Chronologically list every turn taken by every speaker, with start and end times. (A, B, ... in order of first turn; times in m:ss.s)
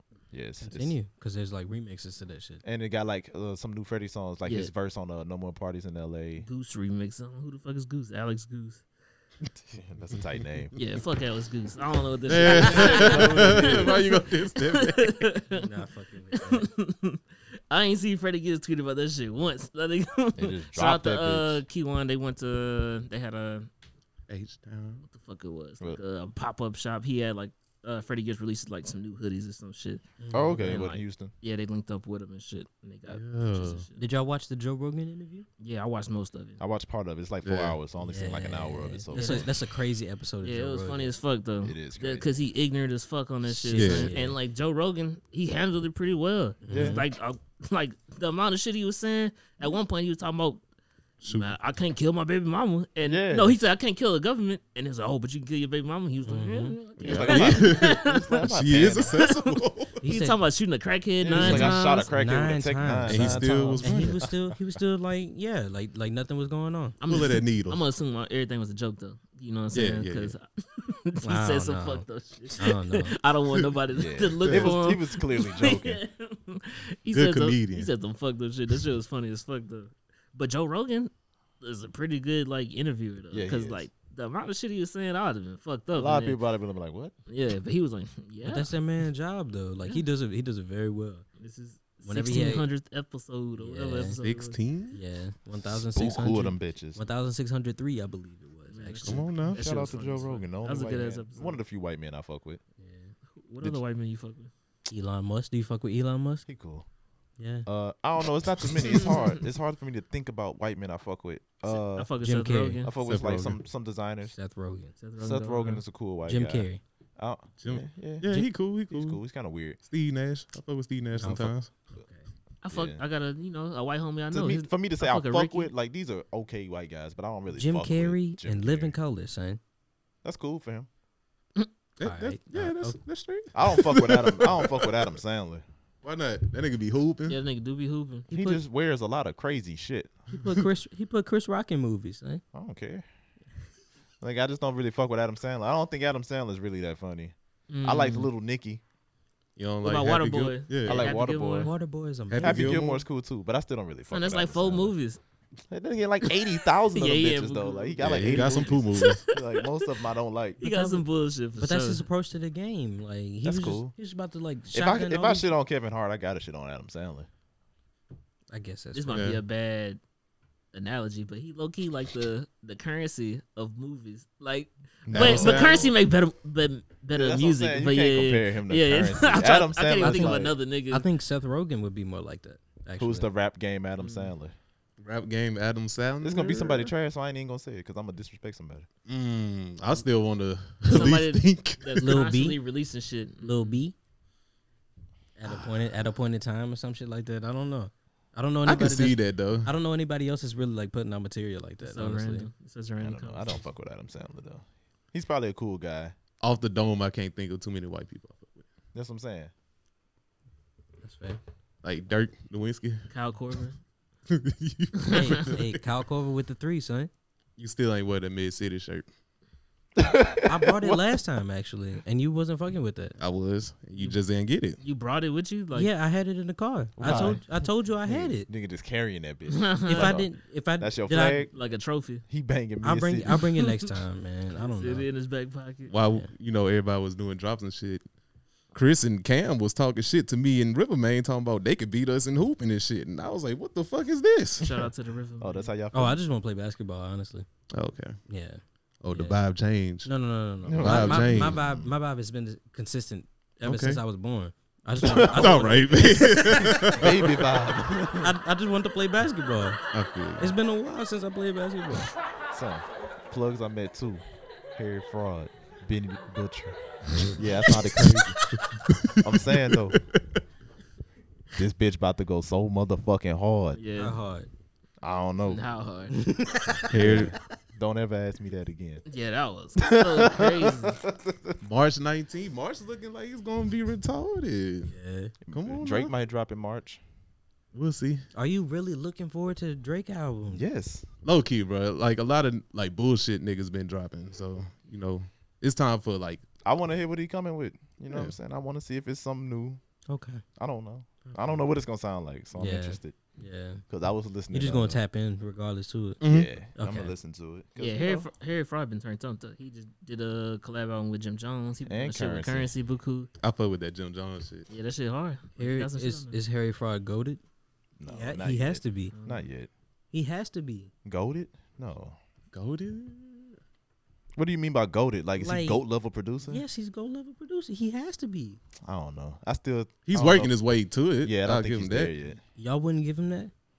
0:00.3-0:01.0 A
0:00.6-0:02.6 B
0:02.6-0:06.5 A
0:04.4-0:04.7 C
0:06.4-0:08.8 C
0:09.5-0:10.7 A
0:10.8-0:15.7 C
0:12.3-0:15.3 D
0:12.6-0:13.8 A
0:12.8-0:13.0 B
0:15.5-0:16.7 B
0:16.3-0:23.7 C
0:20.4-0:21.6 A
0:24.3-0:25.0 D
0:25.1-0:30.0 C
0:30.2-0:30.7 B
0:30.3-0:31.3 A
0:30.6-0:34.1 C
0:33.1-0:33.9 D
0:34.0-0:35.5 B
0:35.6-0:36.6 C
0:36.6-0:39.5 A
0:37.4-0:37.8 D
0:38.0-0:41.2 B
0:39.1-0:39.5 C
0:40.4-0:50.6 C
0:41.6-0:42.5 A
0:43.6-0:44.1 D
0:43.7-0:44.4 B
0:46.6-0:47.0 B
0:46.7-0:47.0 A
0:51.2-0:51.5 D
0:51.3-0:58.5 C
0:53.0-0:53.6 A
0:56.3-0:56.8 B
0:57.0-1:00.0 D
0:57.0-0:59.2 A
0:59.0-1:02.1 C
1:00.0-1:00.4 B
1:01.2-1:04.2 A
1:01.4-1:07.0 B
1:01.4-1:01.7 D
1:03.1-1:04.3 D
1:07.0-1:26.4 C
1:07.0-1:07.8 D
1:09.7-1:10.4 D
1:11.2-1:12.1 B
1:12.6-1:13.2 B
1:14.0-1:16.0 A
1:14.4-1:14.8 D
1:17.1-1:17.9 D
1:23.3-1:23.9 A
1:25.9-1:27.1 A
1:27.3-1:28.7 C
1:28.4-1:31.3 B
1:31.4-1:34.6 C
1:32.0-1:32.7 B
1:33.6-1:34.2 B
1:34.2-1:35.0 D
1:34.9-1:39.4 B
1:35.8-1:37.0 A
1:38.7-1:41.6 C
1:39.0-1:39.6 D
1:39.5-1:42.6 A
1:42.8-1:43.1 B
1:43.4-1:44.5 C
1:44.9-1:46.5 B
1:46.5-1:46.9 A
1:47.4-1:47.7 B
1:47.7-1:52.1 A
1:48.8-1:49.3 C
1:51.7-1:52.9 C
1:52.2-1:52.8 B
1:52.8-1:54.4 A
1:53.0-1:53.6 D
1:54.3-1:55.0 B
1:55.0-1:55.8 C
1:55.2-1:58.3 A
1:56.3-1:56.8 B
1:57.6-1:59.2 D
1:58.9-1:59.8 A
1:59.8-2:01.7 D
2:01.2-2:02.3 B
2:02.6-2:05.7 C
2:02.7-2:03.0 A
2:04.3-2:09.0 A
2:07.5-2:09.6 B
2:10.2-2:10.9 A
2:12.0-2:14.9 D
2:12.0-2:13.0 B
2:13.5-2:15.6 A
2:16.0-2:17.4 D
2:17.3-2:18.3 C
2:18.3-2:18.6 B
2:18.3-2:20.2 A
2:20.3-2:22.4 B
2:22.5-2:23.0 A
2:24.2-2:28.8 A
2:27.7-2:28.3 C
2:29.6-2:31.1 D
2:29.8-2:31.7 C
2:30.8-2:31.7 A
2:31.6-2:32.8 B
2:32.3-2:33.0 D
2:32.4-2:34.9 A
2:34.1-2:35.2 C
2:35.7-2:41.0 A
2:36.3-2:39.9 C
2:38.0-2:39.2 D
2:40.6-2:42.1 C
2:41.6-2:45.5 B
2:43.4-2:43.9 A
2:44.7-2:47.3 A
2:48.5-2:49.3 B
2:48.9-2:50.0 C
2:49.1-2:49.4 D
2:50.7-3:01.1 C
2:55.1-2:55.9 A
2:55.1-2:55.9 D
2:57.1-3:00.6 A
3:00.0-3:03.3 B
3:03.0-3:04.6 A
3:04.0-3:04.3 C
3:05.0-3:06.9 D
3:06.2-3:08.9 A
3:09.1-3:12.2 D
3:10.8-3:13.8 C
3:12.0-3:12.6 B
3:13.4-3:14.0 B
3:15.4-3:22.5 B
3:15.5-3:15.9 D
3:18.6-3:19.7 D
3:21.8-3:23.6 C
3:23.0-3:26.2 A
3:26.4-3:28.6 D
3:28.9-3:29.5 A
3:31.0-3:31.4 B
3:31.8-3:33.1 D
3:33.1-3:33.8 C
3:34.3-3:35.8 D
3:35.0-3:35.3 C
3:35.1-3:37.1 B
3:37.6-3:39.1 D
3:40.0-3:41.0 A
3:40.4-3:43.2 B
3:43.2-3:44.8 D
3:44.8-3:45.9 C
3:45.7-3:48.5 B
3:47.0-3:51.5 A
3:47.0-3:47.4 C
3:49.5-3:50.2 C
3:49.9-3:51.5 B
3:51.5-3:52.2 C
3:52.3-3:53.4 A
3:52.8-3:55.1 B
3:53.3-3:53.9 C
3:54.6-3:55.9 C
3:55.9-3:58.0 D
3:58.7-4:04.9 D
4:04.6-4:05.7 C
4:05.4-4:06.2 A
4:05.9-4:07.5 B
4:07.7-4:08.2 D
4:08.3-4:09.4 B
4:09.0-4:10.1 D
4:10.0-4:17.0 B
4:10.7-4:11.9 A
4:10.8-4:11.6 D
4:13.6-4:14.0 D
4:15.0-4:15.6 A
4:15.0-4:17.9 D
4:16.9-4:18.3 A
4:18.2-4:19.8 B
4:19.9-4:20.6 D
4:20.4-4:22.1 B
4:22.5-4:24.2 A
4:24.8-4:26.8 A
4:27.3-4:28.4 A
4:28.7-4:30.4 D
4:29.2-4:30.0 A
4:31.6-4:33.8 A
4:33.8-4:34.2 C
4:34.0-4:34.5 B
4:35.0-4:35.7 A
4:35.4-4:36.2 C
4:36.1-4:37.4 B
4:36.9-4:37.3 D
4:37.0-4:39.0 A
4:39.1-4:41.0 C
4:39.8-4:41.6 A
4:41.6-4:44.9 D
4:44.9-4:45.4 B
4:45.5-4:47.0 A
4:45.5-4:46.1 D
4:47.7-4:48.2 D
4:48.3-4:50.6 B
4:50.5-4:51.1 A
4:51.2-4:56.4 D
4:56.6-4:59.8 A
5:00.1-5:00.4 B
5:00.6-5:03.2 A
5:01.3-5:01.6 B
5:02.6-5:03.8 B
5:03.9-5:05.0 A
5:04.5-5:06.2 B
5:06.2-5:06.5 D
5:06.2-5:08.3 A
5:06.8-5:07.1 B
5:07.8-5:13.3 C
5:11.9-5:12.7 A
5:13.4-5:14.7 D
5:14.7-5:16.4 C
5:15.6-5:17.4 B
5:18.0-5:19.7 A
5:18.0-5:19.1 B
5:19.1-5:19.5 C
5:20.1-5:20.9 B
5:21.0-5:22.2 A
5:22.5-5:23.6 D
5:24.4-5:26.6 A
5:25.4-5:25.8 B
5:26.4-5:28.6 B
5:28.8-5:30.5 A
5:30.1-5:32.1 D
5:31.2-5:32.4 A
5:32.6-5:33.5 B